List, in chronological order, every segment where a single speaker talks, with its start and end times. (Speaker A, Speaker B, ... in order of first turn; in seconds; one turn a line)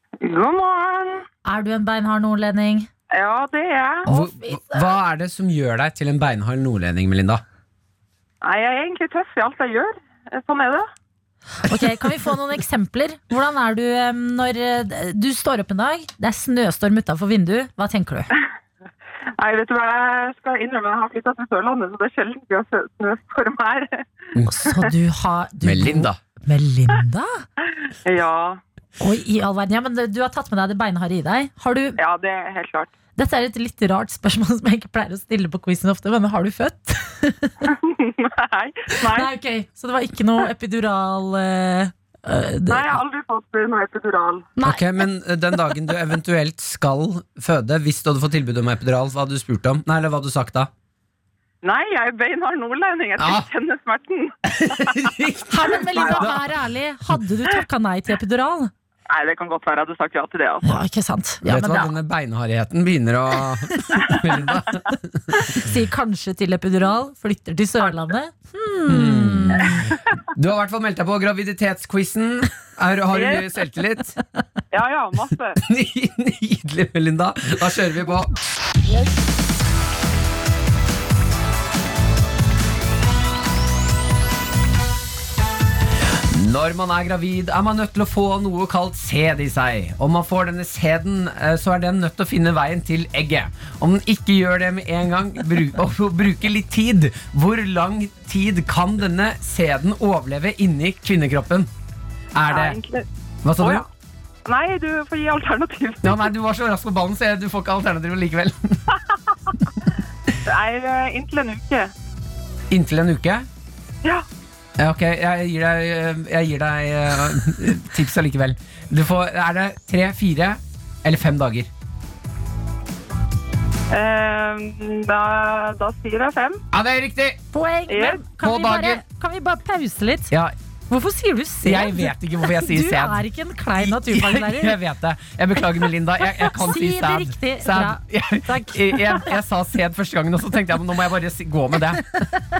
Speaker A: 0.2-1.2
Speaker B: 1.4-2.9
Speaker A: 3.1-4.0
Speaker B: 4.0-5.0
Speaker C: 4.1-7.4
Speaker A: 8.4-10.9
Speaker B: 11.6-18.3
Speaker A: 19.4-24.0
Speaker C: 24.3-24.7
Speaker B: 24.5-27.4
Speaker C: 25.6-26.2
Speaker A: 28.0-28.6
Speaker B: 29.0-32.0
Speaker A: 32.0-32.9
Speaker B: 33.2-37.7
Speaker A: 37.7-39.3
Speaker B: 39.0-43.0
Speaker A: 42.7-44.5
Speaker B: 44.6-45.0
Speaker C: 44.6-50.7
Speaker A: 51.6-55.0
Speaker C: 53.2-53.5
Speaker C: 54.5-56.4
Speaker B: 55.5-58.7
Speaker A: 56.0-56.3
Speaker A: 59.1-60.8
Speaker B: 60.6-61.9
Speaker C: 61.4-65.4
Speaker B: 63.8-64.2
Speaker B: 65.4-69.9
Speaker C: 68.9-74.2
Speaker A: 73.1-73.5
Speaker A: 74.7-75.6
Speaker C: 75.6-78.3
Speaker C: 86.2-101.7
Speaker C: 102.3-102.8
Speaker A: 102.5-103.0
Speaker C: 103.4-103.8
Speaker A: 103.6-103.8
Speaker A: 104.5-106.3
Speaker C: 106.0-108.8
Speaker A: 110.4-111.9
Speaker C: 112.7-113.5
Speaker C: 114.8-121.7
Speaker A: 123.9-126.6
Speaker C: 126.7-127.4
Speaker B: 127.5-130.3
Speaker A: 127.9-128.2
Speaker C: 128.4-129.0
Speaker B: 130.9-134.8
Speaker C: 131.6-133.2
Speaker C: 133.8-142.3
Speaker B: 136.2-139.3